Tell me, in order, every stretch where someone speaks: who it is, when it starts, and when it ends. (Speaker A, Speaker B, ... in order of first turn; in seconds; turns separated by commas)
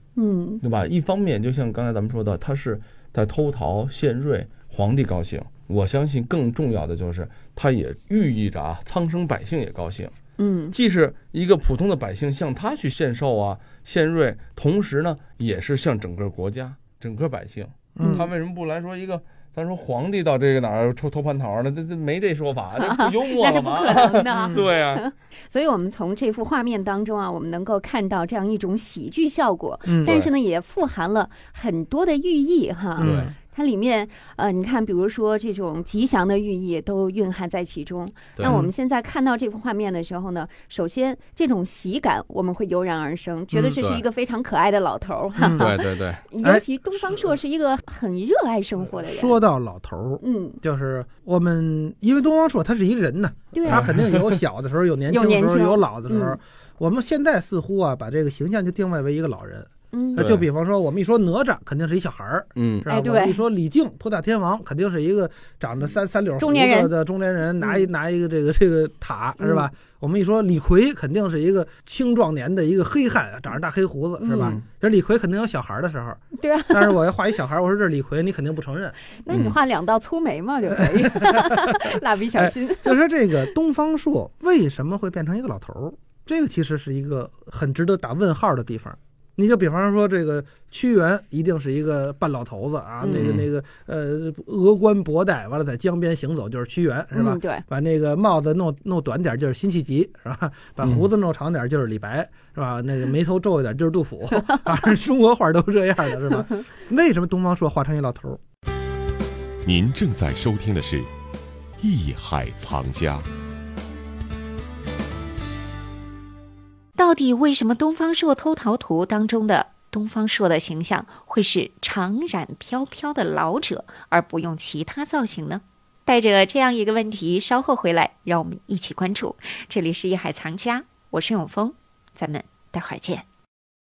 Speaker A: 0.1-0.6, Speaker B: 0.6-10.1, Speaker A: 10.4-10.7, Speaker B: 10.7-25.1, Speaker C: 17.9-18.3, Speaker A: 18.0-18.3, Speaker A: 22.8-49.4, Speaker C: 24.4-24.6, Speaker C: 29.9-30.1, Speaker B: 30.0-30.3, Speaker C: 33.0-33.3, Speaker B: 33.0-33.3, Speaker B: 38.4-38.6, Speaker C: 38.4-38.7, Speaker B: 43.6-44.0, Speaker C: 45.4-45.7, Speaker B: 45.5-46.2, Speaker C: 46.4-47.4, Speaker C: 48.9-79.0, Speaker A: 50.2-50.6, Speaker A: 53.5-53.9, Speaker B: 53.7-54.4, Speaker A: 55.1-56.4, Speaker A: 59.9-60.3, Speaker B: 60.2-60.5, Speaker B: 62.5-62.9, Speaker A: 62.9-63.4, Speaker A: 66.4-66.9, Speaker A: 67.6-67.9, Speaker A: 69.4-69.7, Speaker A: 74.2-74.6, Speaker A: 76.4-77.0, Speaker A: 79.2-83.0, Speaker B: 79.3-79.6, Speaker C: 80.8-108.4, Speaker A: 93.0-93.3, Speaker B: 93.0-93.5, Speaker A: 97.1-97.6, Speaker B: 100.8-101.1, Speaker D: 109.6-111.1, Speaker D: 111.8-113.3, Speaker E: 117.0-133.2